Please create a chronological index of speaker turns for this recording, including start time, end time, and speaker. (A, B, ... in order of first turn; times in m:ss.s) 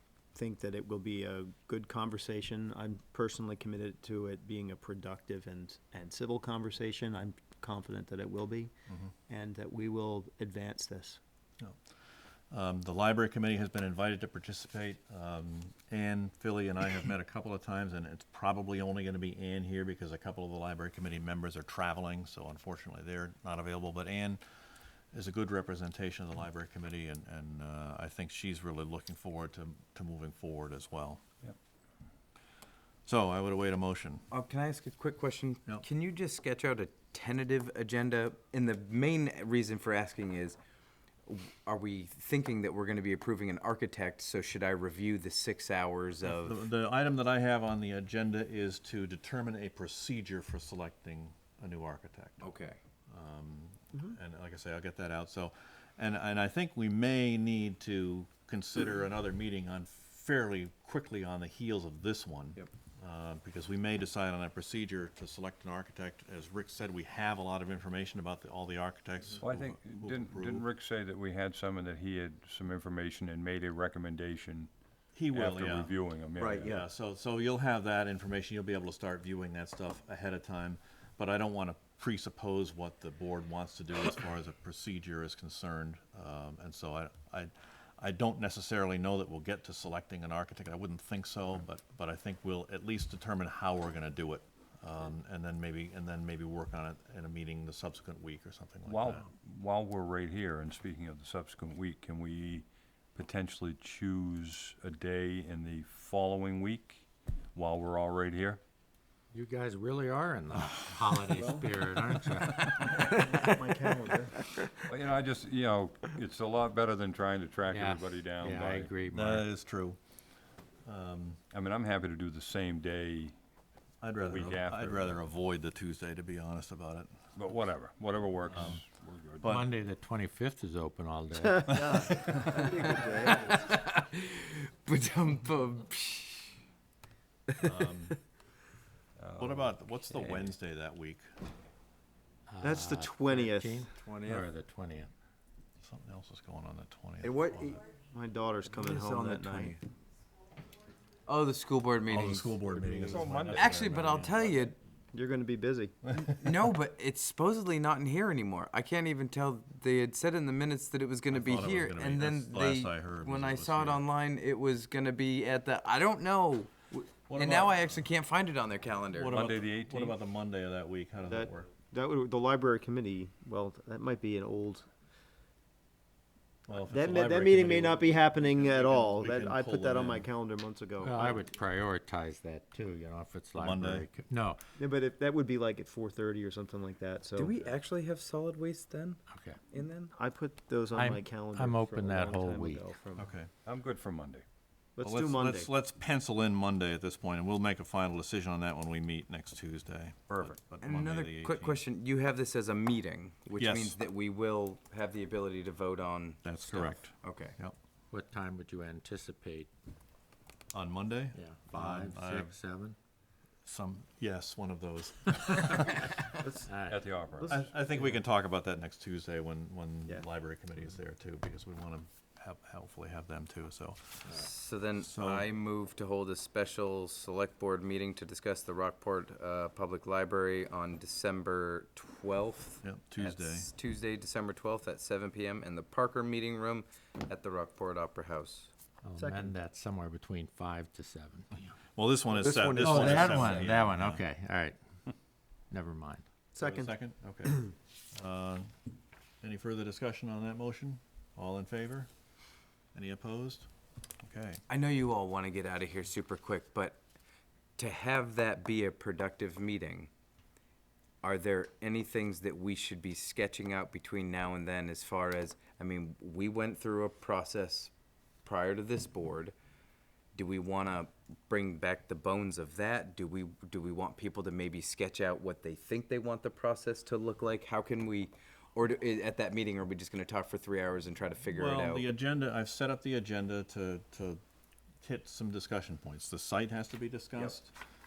0:00.3-0:08.7 A
0:09.3-0:11.2 A
0:12.5-0:24.4 B
0:25.1-0:31.2 B
0:33.0-0:34.2 B
0:34.3-0:40.6 C
0:41.2-0:46.6 C
0:46.2-0:52.5 B
0:52.4-0:52.8 C
0:53.1-1:10.6 B
1:09.4-1:14.7 D
1:15.1-1:15.9 B
1:15.3-1:16.8 D
1:16.4-1:16.8 A
1:16.6-1:39.2 B
1:38.8-1:48.6 D
1:49.3-1:53.1 E
1:52.8-1:54.5 A
1:54.8-1:59.0 D
1:57.7-1:59.5 E
1:59.1-2:00.0 B
2:00.8-2:01.4 B
2:01.5-2:03.3 D
2:04.0-2:07.1 B
2:04.2-2:05.2 D
2:07.3-2:09.7 D
2:08.5-2:08.8 B
2:09.4-2:09.7 B
2:09.4-2:12.2 E
2:11.4-2:13.6 A
2:12.4-2:16.6 C
2:17.6-2:18.2 B
2:19.2-2:19.7 D
2:19.4-2:21.3 B
2:20.1-2:20.5 C
2:22.5-2:25.1 E
2:22.6-2:23.9 A
2:25.8-2:27.8 B
2:27.2-2:29.8 A
2:28.7-2:29.8 C
2:31.2-2:34.8 C
2:32.1-2:34.1 B
2:32.7-2:33.2 A
2:33.0-2:34.7 D
2:35.1-2:36.0 A
2:36.1-2:49.4 C
2:41.3-2:44.1 B
2:47.2-2:48.1 B
2:49.1-2:51.7 B
2:49.3-2:50.2 D
2:51.3-2:54.9 A
2:56.7-3:00.3 B
2:56.9-3:01.5 A
3:01.0-3:04.6 E
3:03.6-3:04.1 B
3:04.8-3:07.6 A
3:07.4-3:10.1 C
3:09.3-3:09.6 E
3:10.1-3:13.3 A
3:10.9-3:12.8 E
3:13.2-3:13.5 B
3:13.6-3:14.4 D
3:15.0-3:15.7 A
3:15.0-3:21.8 B
3:20.8-3:27.6 C
3:23.6-3:24.0 B
3:26.4-3:27.8 B
3:28.1-3:29.7 E
3:30.7-3:32.6 B
3:31.3-3:33.0 E
3:33.6-3:36.1 B
3:36.6-3:37.0 E
3:36.9-3:37.5 D
3:37.3-3:38.1 A
3:37.5-3:45.5 B
3:44.3-3:58.7 C
3:52.8-3:53.7 B
3:59.0-4:01.5 E
3:59.2-3:59.5 A
4:01.9-4:04.2 B
4:02.3-4:03.8 C
4:02.7-4:04.8 E
4:05.7-4:06.2 E
4:06.5-4:07.0 A
4:06.6-4:08.7 B
4:09.4-4:12.1 B
4:12.9-4:13.7 B
4:14.2-4:14.6 B
4:14.7-4:17.0 C
4:17.8-4:20.1 C
4:21.2-4:27.9 C
4:28.4-4:29.5 C
4:30.3-4:42.1 C
4:41.5-4:44.4 B
4:45.0-4:47.7 B